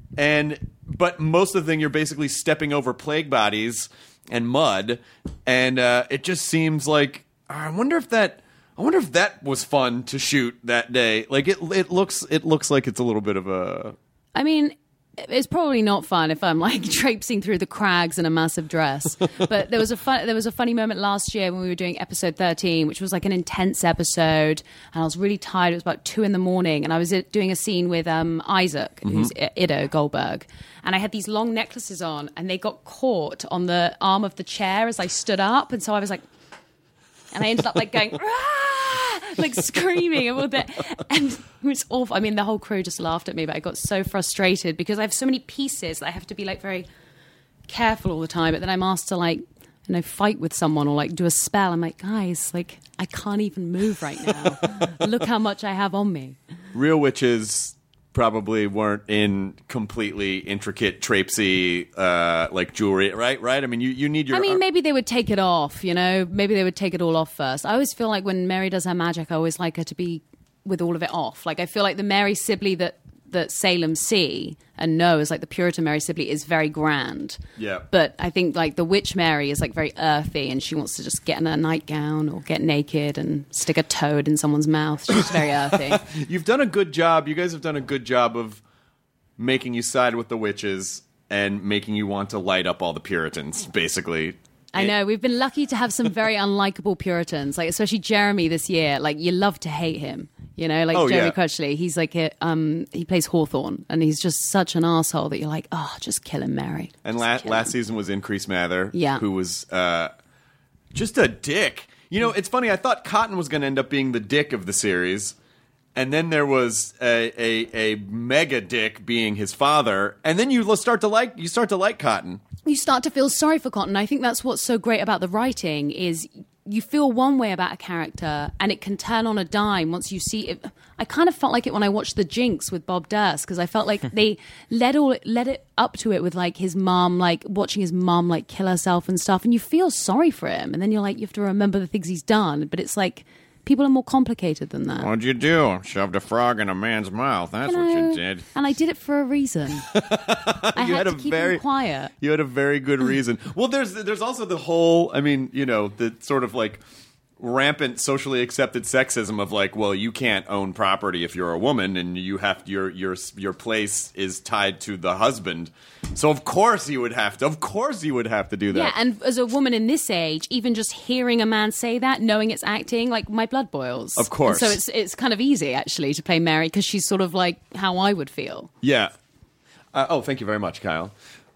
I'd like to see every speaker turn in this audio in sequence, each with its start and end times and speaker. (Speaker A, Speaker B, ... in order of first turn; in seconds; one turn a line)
Speaker A: 0.2-14.0
Speaker B: 14.3-36.2
Speaker A: 29.1-29.3
Speaker B: 37.3-46.9
Speaker B: 47.7-56.4
Speaker A: 56.7-64.6
Speaker B: 64.3-77.4
Speaker A: 77.6-77.9
Speaker B: 77.9-86.1
Speaker A: 85.9-88.6
Speaker A: 89.4-94.9
Speaker B: 94.7-107.7
Speaker A: 100.9-101.4
Speaker A: 107.0-110.1
Speaker B: 108.9-109.2
Speaker A: 110.9-115.4
Speaker A: 116.0-122.4
Speaker B: 122.7-145.1
Speaker A: 145.0-148.5
Speaker B: 147.6-149.9
Speaker A: 149.9-151.6
Speaker B: 150.7-152.1
Speaker A: 152.1-156.8
Speaker A: 157.4-168.9
Speaker B: 168.7-178.7
Speaker A: 174.2-174.8
Speaker A: 178.8-179.1
Speaker A: 179.9-181.1